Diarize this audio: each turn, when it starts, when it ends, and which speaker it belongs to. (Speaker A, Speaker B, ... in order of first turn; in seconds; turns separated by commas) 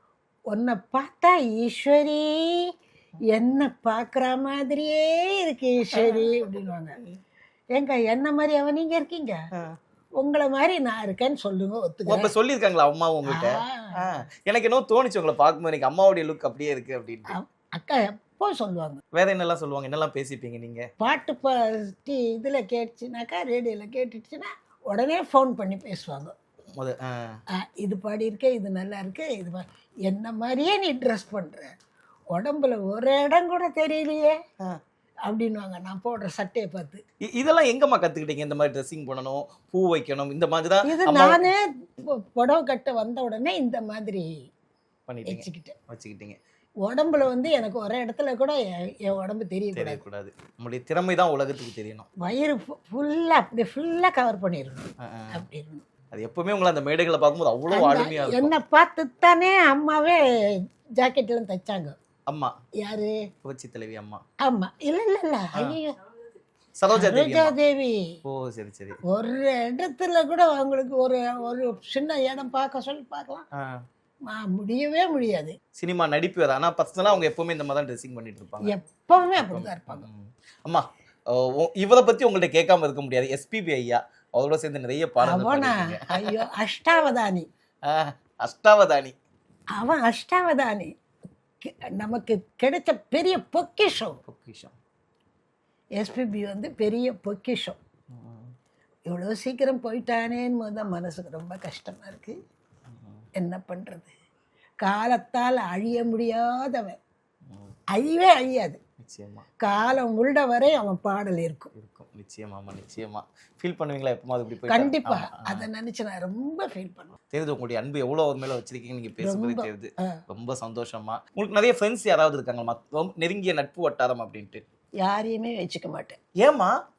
Speaker A: 0.5-2.7, Speaker A: 3.4-7.0, Speaker B: 5.9-6.3, Speaker A: 7.8-9.4, Speaker A: 10.2-12.3, Speaker B: 12.1-17.3, Speaker A: 13.2-14.1, Speaker A: 17.3-19.0, Speaker B: 19.1-20.9, Speaker A: 21.0-26.4, Speaker B: 26.8-27.4, Speaker A: 27.6-31.7, Speaker A: 32.3-34.4, Speaker A: 35.3-37.0, Speaker B: 37.3-41.5, Speaker A: 40.9-44.3, Speaker B: 45.1-46.4, Speaker A: 45.2-45.8, Speaker A: 46.9-50.0, Speaker B: 49.7-52.1, Speaker A: 52.2-55.8, Speaker B: 55.0-55.4, Speaker B: 56.1-58.5, Speaker A: 57.7-60.2, Speaker A: 61.0-62.0, Speaker B: 62.3-62.5, Speaker A: 62.8-63.1, Speaker B: 63.4-64.2, Speaker A: 64.5-66.0, Speaker B: 66.8-67.5, Speaker A: 66.9-68.2, Speaker B: 68.2-69.0, Speaker A: 69.1-73.5, Speaker A: 74.3-75.6, Speaker B: 75.8-78.7, Speaker A: 78.6-80.0, Speaker B: 79.4-86.4, Speaker A: 85.2-87.5, Speaker B: 87.9-89.2, Speaker A: 89.8-90.9, Speaker A: 91.6-94.2, Speaker B: 94.2-94.8, Speaker A: 96.0-97.8, Speaker B: 98.1-98.5, Speaker A: 99.1-102.3, Speaker B: 102.9-103.2, Speaker A: 103.4-104.1, Speaker A: 104.8-107.0, Speaker A: 107.9-108.8, Speaker B: 109.0-109.5, Speaker A: 109.6-111.7, Speaker B: 111.7-115.7, Speaker A: 114.7-117.2, Speaker B: 117.3-124.6, Speaker A: 119.2-120.1, Speaker A: 125.0-126.2, Speaker B: 126.4-126.8